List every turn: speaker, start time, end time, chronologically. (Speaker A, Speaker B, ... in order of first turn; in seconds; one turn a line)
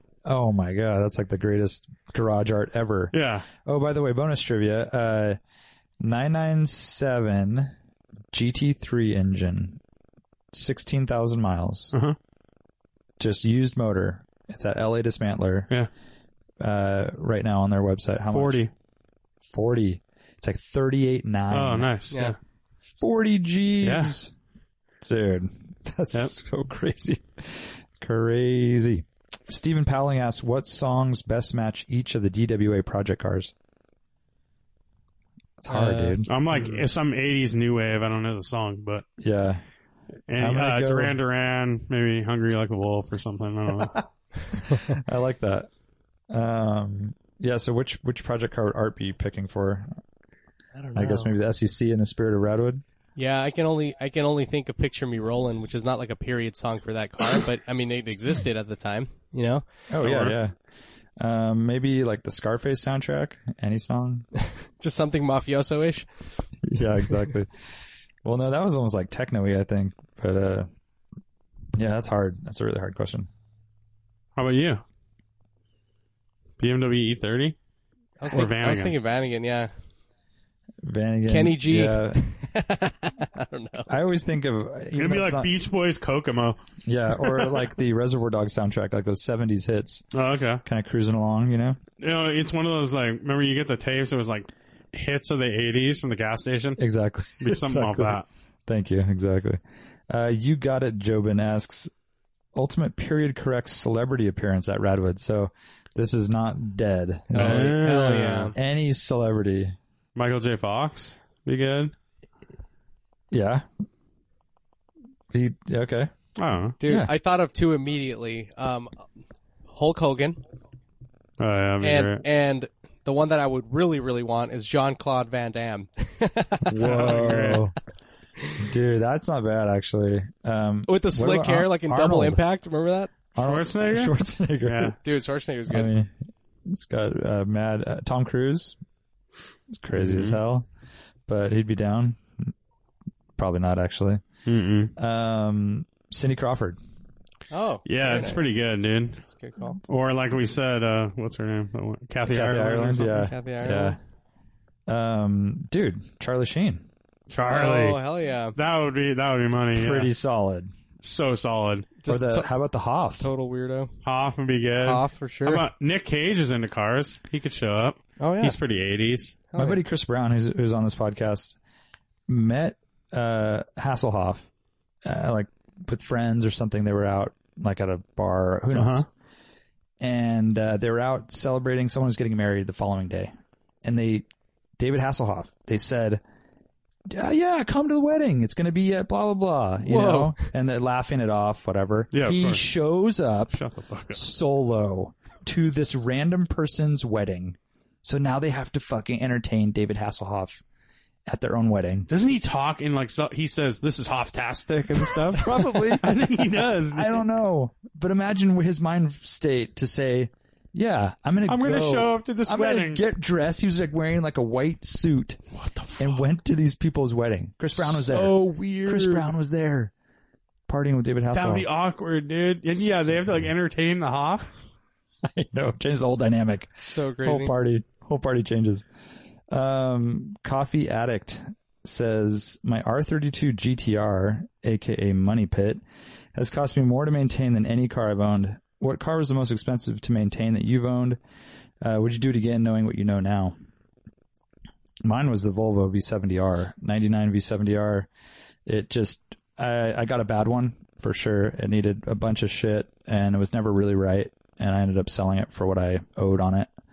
Speaker A: 0.2-5.4
Speaker B: 3.1-3.5
Speaker A: 6.0-7.7
Speaker A: 8.3-9.8
Speaker A: 10.5-11.9
Speaker A: 13.2-15.7
Speaker A: 16.6-18.7
Speaker B: 18.3-18.7
Speaker A: 19.5-21.9
Speaker B: 21.5-22.4
Speaker A: 23.0-24.3
Speaker B: 23.8-24.2
Speaker A: 25.0-33.5
Speaker A: 35.6-36.8
Speaker C: 35.7-36.2
Speaker B: 36.2-39.1
Speaker A: 39.2-39.6
Speaker B: 40.3-44.0
Speaker A: 40.4-41.2
Speaker A: 44.7-45.7
Speaker A: 46.3-49.9
Speaker C: 50.8-51.3
Speaker A: 51.0-52.8
Speaker C: 53.2-59.6
Speaker A: 59.9-60.5
Speaker B: 60.0-60.4
Speaker A: 61.2-64.3
Speaker C: 64.4-66.1
Speaker A: 66.6-67.5
Speaker A: 68.2-70.7
Speaker A: 71.8-73.3
Speaker B: 74.4-74.8
Speaker B: 76.6-77.6
Speaker C: 78.2-79.7
Speaker B: 78.3-79.0
Speaker A: 80.8-82.2
Speaker C: 81.3-83.9
Speaker A: 83.9-85.5
Speaker B: 85.0-86.6
Speaker A: 86.9-90.1
Speaker B: 90.1-90.6
Speaker A: 90.7-91.8
Speaker B: 92.0-96.8
Speaker A: 96.8-101.9
Speaker B: 97.4-98.3
Speaker A: 102.5-107.8
Speaker B: 107.3-108.5
Speaker C: 107.3-108.5
Speaker A: 108.5-109.8
Speaker B: 110.2-111.9
Speaker A: 113.3-113.7
Speaker A: 115.3-116.1
Speaker B: 116.4-116.8
Speaker C: 116.8-119.0
Speaker A: 116.8-117.1
Speaker C: 119.7-120.4
Speaker B: 121.4-122.2
Speaker C: 121.8-127.2
Speaker A: 126.7-127.8
Speaker B: 126.8-127.7
Speaker A: 128.6-132.4
Speaker C: 130.9-133.1
Speaker A: 133.3-135.0
Speaker B: 133.4-135.0
Speaker C: 135.0-135.9
Speaker A: 135.7-136.1
Speaker A: 136.7-138.8
Speaker A: 139.7-140.7
Speaker B: 139.9-140.4
Speaker A: 141.3-142.5
Speaker A: 143.4-144.2
Speaker B: 144.5-144.9
Speaker A: 145.0-146.8
Speaker C: 147.5-148.5
Speaker B: 147.9-149.2
Speaker C: 149.2-149.8
Speaker B: 149.8-153.1
Speaker A: 152.3-154.0
Speaker C: 152.7-154.0
Speaker A: 154.9-156.9
Speaker B: 157.3-158.0
Speaker C: 157.5-158.6
Speaker B: 158.6-160.1
Speaker A: 159.7-160.7
Speaker B: 161.0-162.0
Speaker C: 162.0-162.5
Speaker A: 162.1-163.3
Speaker C: 163.2-163.9
Speaker B: 164.0-169.4
Speaker C: 164.7-165.7
Speaker C: 168.2-168.6
Speaker C: 169.5-169.8
Speaker A: 169.6-171.6
Speaker A: 172.3-174.5
Speaker A: 175.0-179.1
Speaker B: 178.7-179.1
Speaker A: 180.0-183.3
Speaker A: 183.8-184.3
Speaker A: 184.8-186.2
Speaker A: 187.1-193.6
Speaker C: 189.8-190.4
Speaker B: 192.1-192.6
Speaker B: 193.5-194.2
Speaker A: 194.1-200.6
Speaker A: 201.3-202.1
Speaker B: 202.1-207.2
Speaker A: 205.3-215.4
Speaker B: 211.5-213.0
Speaker B: 215.5-216.2
Speaker A: 216.0-219.9
Speaker B: 218.0-218.4
Speaker C: 218.3-218.9
Speaker A: 220.7-221.7
Speaker B: 221.3-224.5
Speaker A: 225.2-226.7
Speaker C: 226.8-227.5
Speaker A: 227.2-228.9
Speaker A: 229.5-235.8
Speaker A: 236.3-241.2
Speaker A: 241.8-243.6
Speaker A: 245.0-248.1
Speaker A: 248.7-256.7